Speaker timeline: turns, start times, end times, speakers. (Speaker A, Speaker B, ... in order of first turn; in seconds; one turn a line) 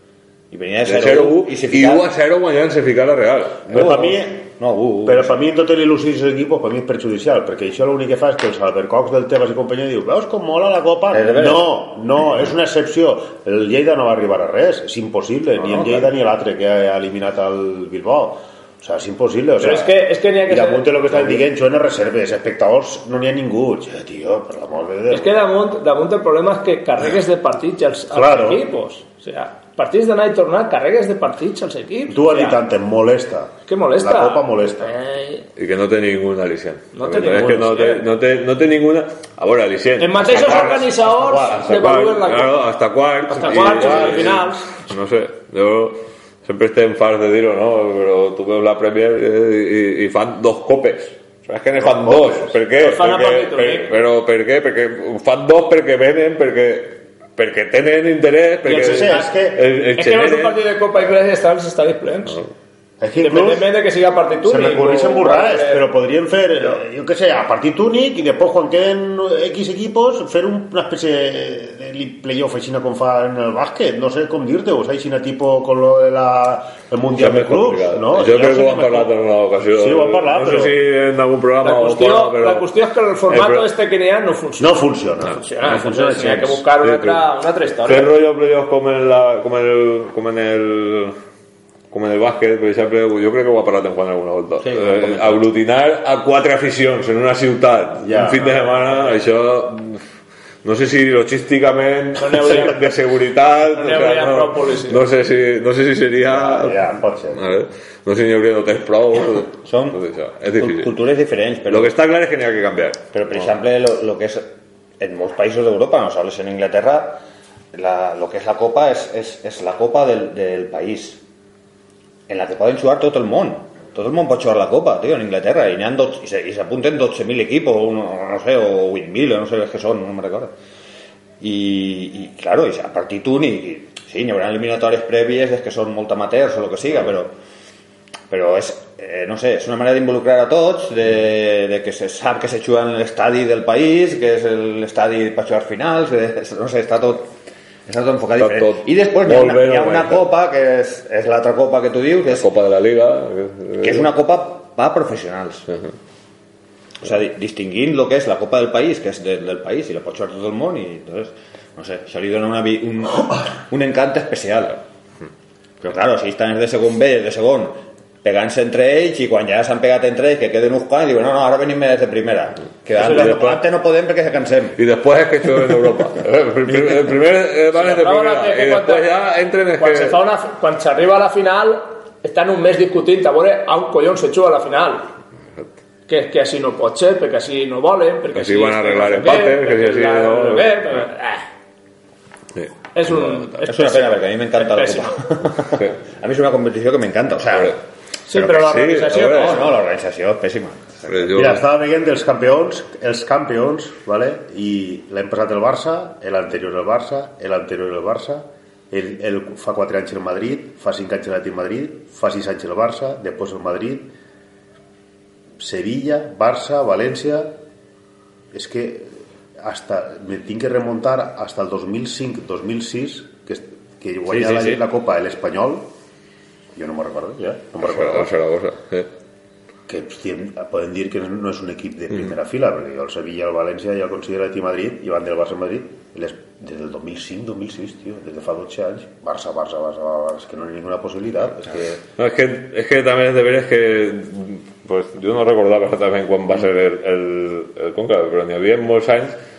Speaker A: 0.5-2.1
Speaker B: 0.8-4.0
Speaker A: 3.7-5.3
Speaker C: 3.7-4.5
Speaker C: 5.0-19.9
Speaker A: 11.1-11.7
Speaker A: 15.6-16.1
Speaker D: 19.6-21.0
Speaker C: 20.5-25.4
Speaker D: 25.1-32.6
Speaker C: 28.1-28.6
Speaker C: 32.1-35.0
Speaker D: 33.7-35.5
Speaker B: 35.6-40.7
Speaker D: 36.9-38.0
Speaker C: 37.3-37.9
Speaker D: 40.0-42.6
Speaker C: 40.2-41.8
Speaker B: 41.5-60.6
Speaker D: 43.3-44.8
Speaker C: 43.5-44.4
Speaker C: 51.8-52.6
Speaker D: 52.8-53.9
Speaker D: 58.6-59.3
Speaker C: 58.7-59.6
Speaker D: 60.0-62.4
Speaker C: 63.0-63.8
Speaker D: 63.2-65.8
Speaker C: 64.4-79.1
Speaker B: 77.2-82.7
Speaker C: 79.7-80.8
Speaker D: 81.6-88.1
Speaker B: 83.3-83.7
Speaker C: 84.6-85.4
Speaker B: 85.6-87.2
Speaker A: 85.7-86.6
Speaker B: 87.8-91.2
Speaker B: 91.9-100.0
Speaker A: 94.6-95.4
Speaker C: 98.0-98.8
Speaker B: 100.6-110.9
Speaker D: 102.2-102.8
Speaker D: 103.7-105.0
Speaker C: 106.3-107.5
Speaker A: 109.6-110.0
Speaker A: 110.6-112.0
Speaker B: 111.7-113.0
Speaker A: 113.1-117.2
Speaker A: 117.7-121.2
Speaker A: 122.3-130.5
Speaker A: 131.4-137.3
Speaker A: 138.3-147.3
Speaker A: 147.9-152.5
Speaker B: 148.4-150.2
Speaker B: 152.3-154.1
Speaker A: 153.8-155.7
Speaker A: 157.0-164.8
Speaker A: 165.8-174.8
Speaker B: 172.9-173.6
Speaker D: 173.0-173.3
Speaker B: 174.8-180.2
Speaker D: 177.7-179.1
Speaker D: 179.8-185.1
Speaker D: 186.1-191.5
Speaker B: 188.3-191.1
Speaker B: 192.5-193.7
Speaker D: 192.9-195.2
Speaker A: 193.7-197.8
Speaker B: 197.5-197.8
Speaker D: 198.3-199.8
Speaker B: 198.3-199.7
Speaker A: 199.3-201.5
Speaker B: 201.1-201.6
Speaker C: 201.3-214.1
Speaker C: 215.6-217.5
Speaker C: 218.5-225.9
Speaker A: 224.3-224.8
Speaker C: 226.8-228.3
Speaker B: 227.8-229.1
Speaker C: 229.9-242.0
Speaker B: 242.2-249.4